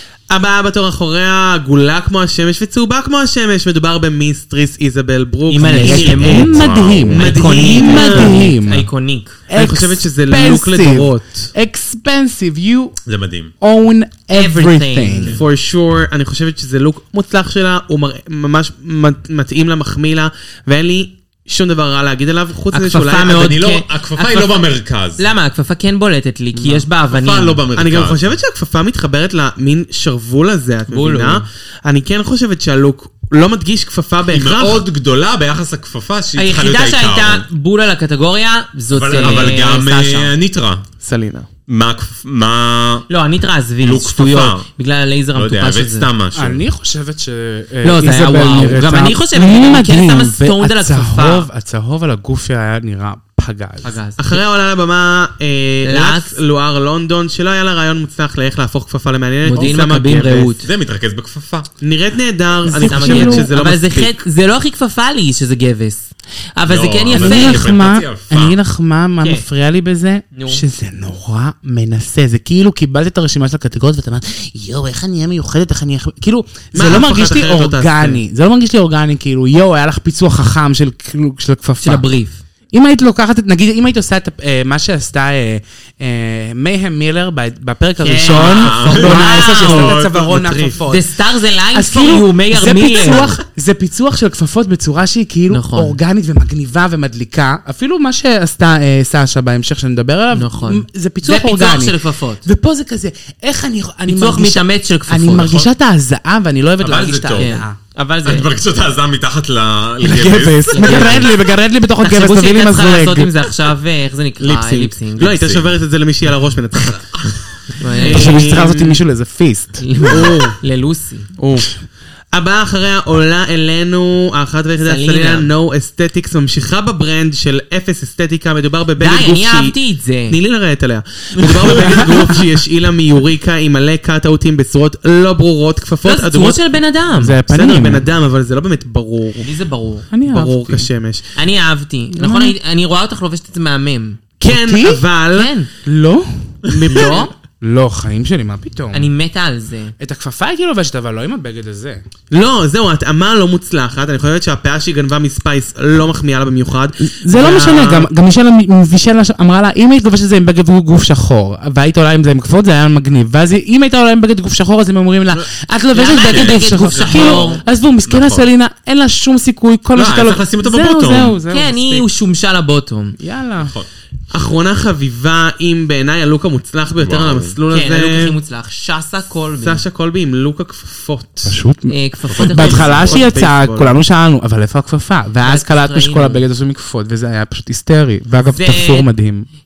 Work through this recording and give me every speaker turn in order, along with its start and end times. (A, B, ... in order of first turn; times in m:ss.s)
0:00.3-0:08.4 A
0:05.5-0:09.4 B
0:05.8-0:08.9 C
0:06.3-0:07.2 D
0:09.5-0:13.0 C
0:09.6-0:11.5 A
0:13.1-0:13.5 D
0:13.6-0:15.4 C
0:14.3-0:15.4 B
0:15.3-0:23.5 A
0:22.7-0:24.6 B
0:23.2-0:25.2 D
0:25.2-0:27.6 B
0:26.6-0:26.8 A
0:27.1-0:28.3 D
0:27.8-0:34.9 A
0:30.9-0:31.4 B
0:34.3-0:37.5 D
0:36.4-0:40.3 B
0:38.9-0:40.8 D
0:39.2-0:39.5 A
0:41.0-0:41.5 A
0:41.7-0:43.1 D
0:43.1-0:46.1 B
0:43.8-0:44.6 D
0:45.3-0:46.6 D
0:46.4-0:54.0 C
0:47.8-0:51.5 B
0:53.8-0:54.4 B
0:54.2-1:00.6 A
0:55.8-0:56.4 B
0:59.4-1:00.7 B
1:00.6-1:01.7 D
1:01.8-1:04.2 A
1:02.6-1:03.5 C
1:02.7-1:07.7 B
1:06.7-1:08.6 D
1:07.1-1:22.1 C
1:10.3-1:10.6 B
1:16.7-1:18.2 A
1:21.8-1:22.4 B
1:22.7-1:31.1 C
1:28.0-1:29.9 B
1:28.3-1:30.4 D
1:29.7-1:30.8 A
1:30.9-1:33.4 B
1:31.7-1:47.8 C
1:35.5-1:36.0 B
1:40.3-1:42.4 B
1:44.1-1:45.7 B
1:46.8-1:47.6 D
1:47.4-1:48.5 B
1:48.2-1:51.3 D
1:50.0-1:53.3 C
1:50.7-1:51.3 B
1:52.0-1:55.4 B
1:54.4-1:57.1 A
1:55.3-1:55.7 D
1:56.9-1:57.4 D
1:57.8-1:58.5 B
1:58.0-1:59.0 A
1:58.0-2:00.3 C
1:59.8-2:01.3 B
2:00.1-2:00.6 A
2:01.4-2:01.7 A
2:02.3-2:09.8 A
2:04.8-2:05.5 B
2:09.0-2:10.4 B
2:10.3-2:16.6 A
2:11.4-2:12.0 D
2:11.4-2:12.3 C
2:16.0-2:17.4 B
2:17.2-2:18.1 C
2:17.5-2:19.5 A
2:19.4-2:20.1 B
2:20.1-2:20.9 C
2:20.2-2:21.3 A
2:21.4-2:24.2 B
2:22.2-2:22.6 C
2:24.4-2:25.5 A
2:24.4-2:25.0 C
2:25.3-2:25.7 B
2:25.8-2:29.1 C
2:26.8-2:27.3 A
2:26.8-2:27.3 B
2:28.9-2:29.9 B
2:30.0-2:32.0 C
2:32.3-2:38.1 A
2:37.1-2:52.1 C
2:45.9-2:47.6 B
2:46.2-2:48.5 D
2:50.0-2:51.4 D
2:51.5-2:53.2 B
2:53.2-2:53.7 C
2:53.6-2:53.9 D
2:54.3-2:58.4 A
2:57.0-2:57.6 D
2:57.7-2:59.8 B
2:59.6-3:01.6 A
3:01.5-3:09.5 C
3:01.9-3:03.0 B
3:02.3-3:03.2 D
3:02.8-3:04.0 A
3:05.4-3:06.4 B
3:08.5-3:09.1 B